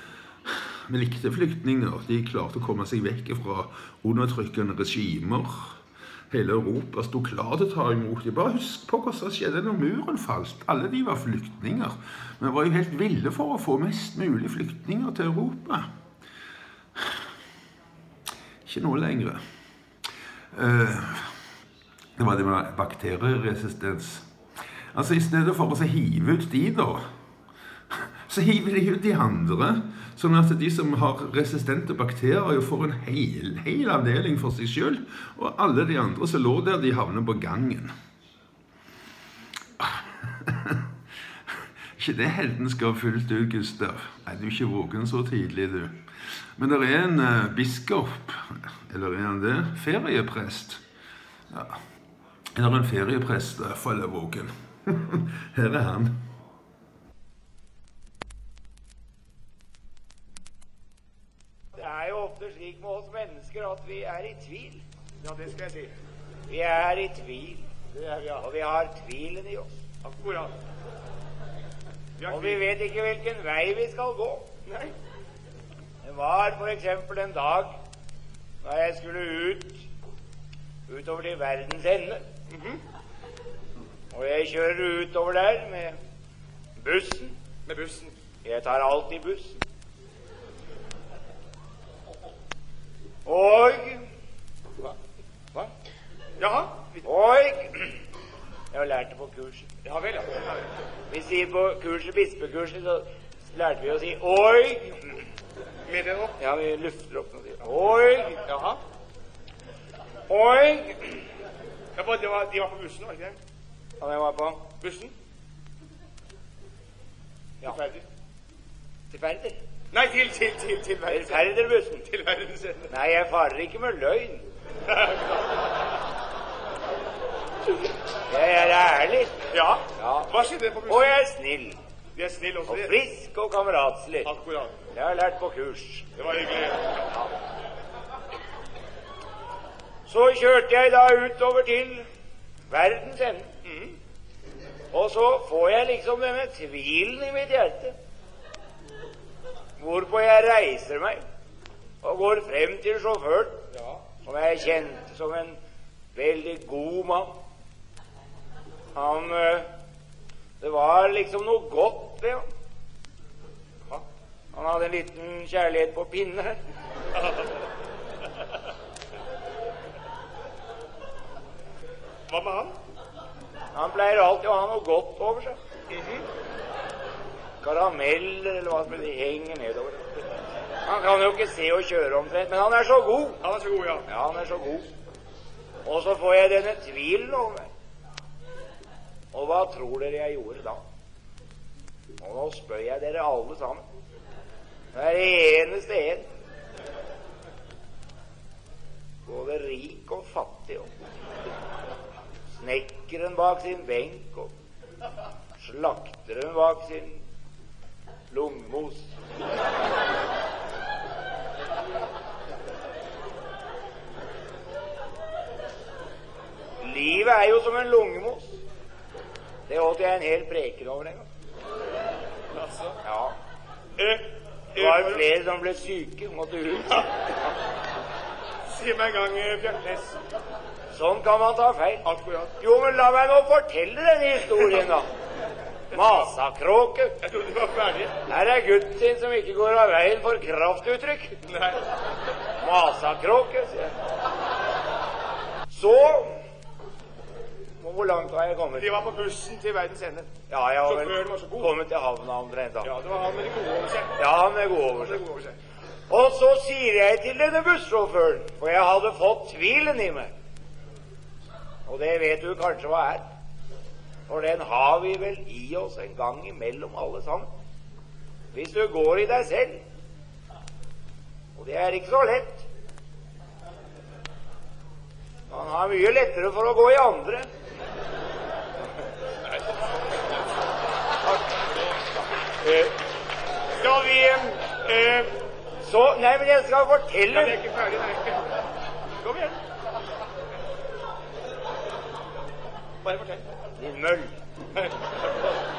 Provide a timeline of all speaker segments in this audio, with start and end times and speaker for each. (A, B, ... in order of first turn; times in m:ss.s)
0:00.9-0:05.8 A
0:06.3-0:15.8 A
0:18.6-0:19.4 A
0:20.5-0:21.3 A
0:22.2-0:24.3 A
0:24.9-0:27.0 A
0:28.3-0:37.9 A
0:40.4-0:40.7 A
0:42.0-0:46.0 A
0:46.6-0:50.8 A
0:52.5-0:56.2 A
1:01.7-1:04.8 B
1:05.2-1:05.9 C
1:06.5-1:07.7 B
1:07.9-1:08.4 C
1:08.4-1:09.8 B
1:10.0-1:10.5 C
1:12.2-1:12.7 C
1:12.3-1:14.5 B
1:14.6-1:14.9 C
1:16.0-1:17.7 B
1:18.6-1:19.9 B
1:20.9-1:22.2 B
1:24.1-1:26.0 B
1:26.8-1:27.3 B
1:27.6-1:28.1 C
1:28.4-1:29.6 B
1:33.2-1:34.0 B
1:36.4-1:37.0 C
1:37.0-1:37.9 B
1:38.7-1:39.7 B
1:39.8-1:40.6 C
1:41.1-1:45.1 B
1:45.9-1:46.3 C
1:46.4-1:48.4 B
1:48.4-1:48.8 C
1:50.3-1:51.2 B
1:52.0-1:53.4 C
1:54.0-1:54.7 B
1:54.8-1:55.1 C
1:57.6-1:58.0 C
1:59.1-1:59.6 B
1:59.9-2:02.9 C
2:01.1-2:02.0 B
2:02.9-2:04.4 B
2:04.9-2:05.2 C
2:08.3-2:09.4 B
2:09.5-2:11.2 C
2:10.0-2:10.3 B
2:10.9-2:11.8 B
2:12.2-2:12.9 C
2:12.6-2:14.3 B
2:14.2-2:14.7 C
2:14.9-2:16.2 B
2:16.2-2:16.9 C
2:20.1-2:22.1 B
2:22.7-2:23.5 B
2:23.6-2:23.9 C
2:24.9-2:28.0 B
2:29.8-2:31.2 B
2:32.0-2:33.6 B
2:34.2-2:35.6 B
2:36.1-2:37.4 B
2:38.9-2:39.7 B
2:40.6-2:42.5 B
2:44.5-2:46.6 B
2:52.3-2:52.7 C
2:53.7-2:55.6 B
2:55.9-2:56.2 C
2:57.6-3:00.2 B
3:00.8-3:03.4 B
3:03.4-3:04.0 C
3:04.1-3:04.9 B
3:05.8-3:07.7 B
3:09.3-3:10.8 B
3:12.2-3:13.8 B
3:14.9-3:16.3 B
3:19.2-3:20.9 B
3:22.6-3:24.5 B
3:25.6-3:27.2 B
3:28.3-3:29.1 B
3:36.8-3:38.6 B
3:39.7-3:41.3 B
3:42.5-3:42.9 C
3:43.0-3:43.4 B
3:44.0-3:45.2 C
3:44.8-3:47.1 B
3:48.7-3:50.2 C
3:50.9-3:52.1 B
3:52.0-3:52.5 C
3:52.6-3:55.1 B
3:55.9-3:57.1 B
3:55.9-3:56.3 C
3:57.2-3:58.1 C
3:58.3-4:01.4 B
4:01.5-4:01.8 C
4:02.6-4:03.9 B
4:05.7-4:06.4 B
4:07.8-4:08.9 B
4:08.7-4:10.3 C
4:10.5-4:12.9 B
4:10.8-4:11.7 C
4:12.8-4:14.2 C
4:14.2-4:15.2 B
4:15.1-4:15.5 C
4:16.1-4:20.3 B
4:21.9-4:23.2 B
4:24.3-4:27.5 B
4:28.5-4:29.8 B
4:31.6-4:32.6 B
4:35.5-4:37.5 B
4:42.6-4:42.9 C
4:43.8-4:44.4 B
4:44.7-4:45.2 C
4:45.8-4:47.6 B
4:47.3-4:48.5 C
4:49.2-4:49.6 C
4:53.0-4:53.4 C
4:53.8-4:54.4 B